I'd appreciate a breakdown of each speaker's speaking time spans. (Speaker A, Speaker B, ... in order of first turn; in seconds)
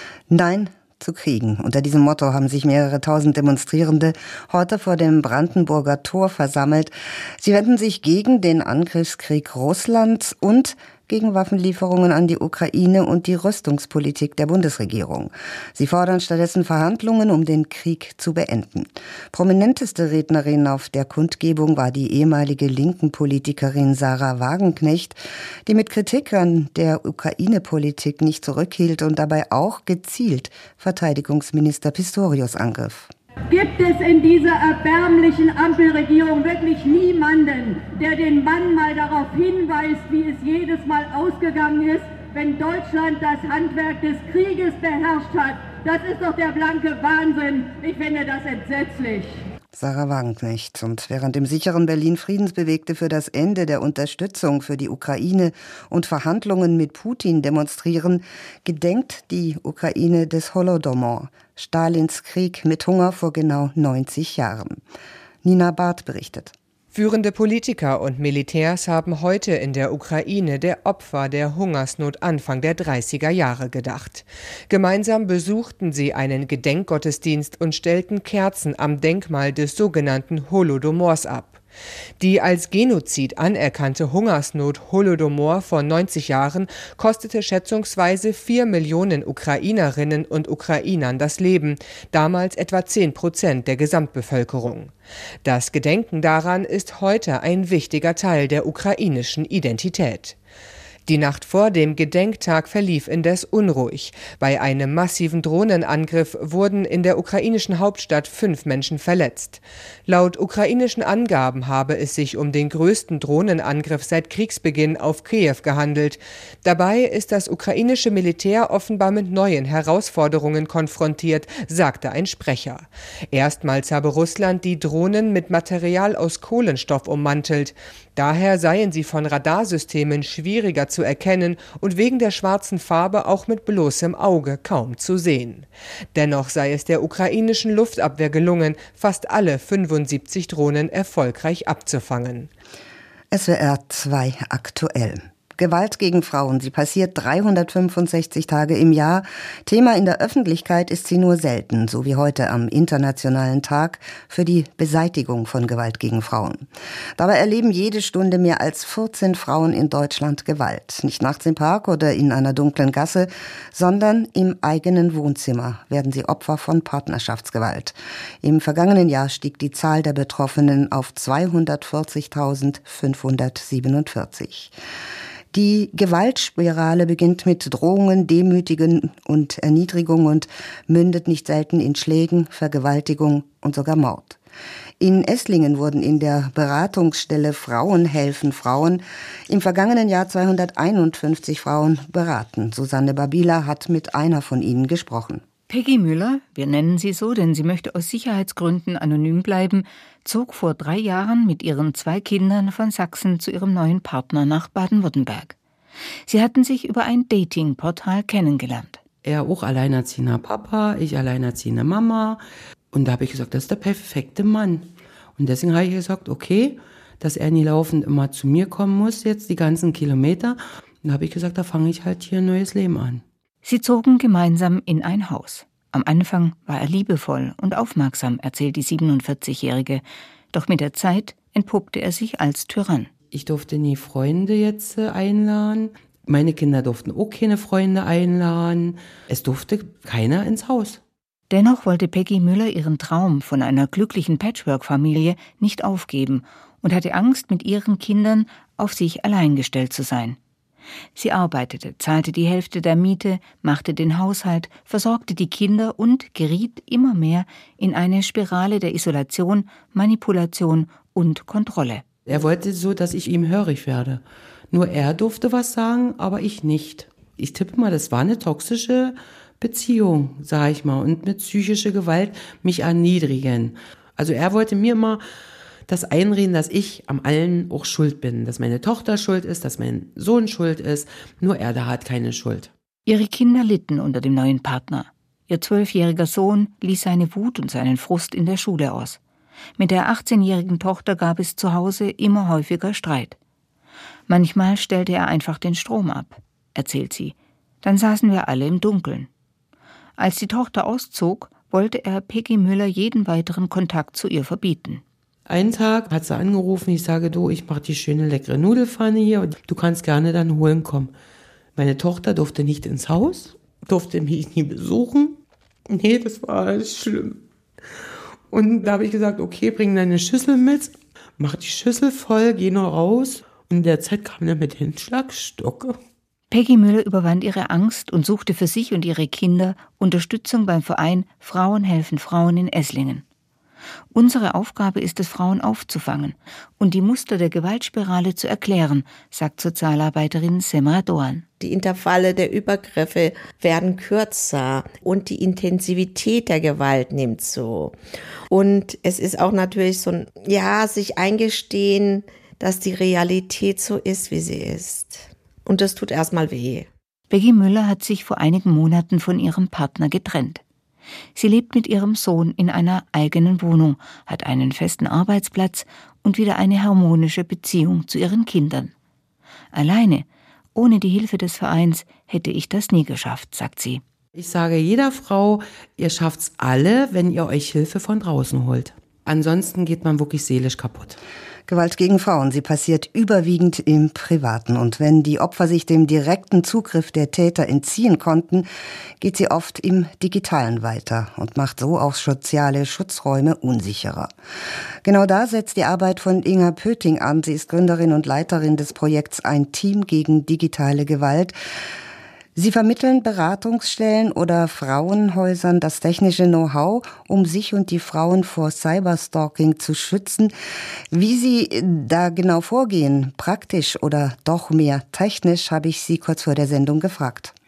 Speaker A: 0.3-33.1, 49.7-64.8, 65.4-66.5, 143.3-174.7, 175.5-184.4, 185.0-195.4, 381.7-388.7, 389.2-394.3, 395.0-401.6, 402.6-410.5, 411.1-417.5
Speaker B: 33.5-49.4
Speaker C: 66.9-81.6, 82.2-100.4, 101.1-142.5
Speaker D: 195.7-205.6, 206.3-209.0, 223.6-233.1, 241.5-250.4, 251.2-262.1, 283.1-289.2, 289.8-293.4, 294.3-299.3, 300.2-305.0, 326.5-333.2, 334.1-341.5, 357.3-360.6, 361.4-368.9, 369.7-374.0
Speaker E: 209.2-223.2, 233.3-241.0, 262.3-275.2, 275.9-282.7, 305.5-311.1, 311.8-317.4, 318.5-326.0, 374.4-381.2
Speaker F: 341.6-348.0, 348.5-356.9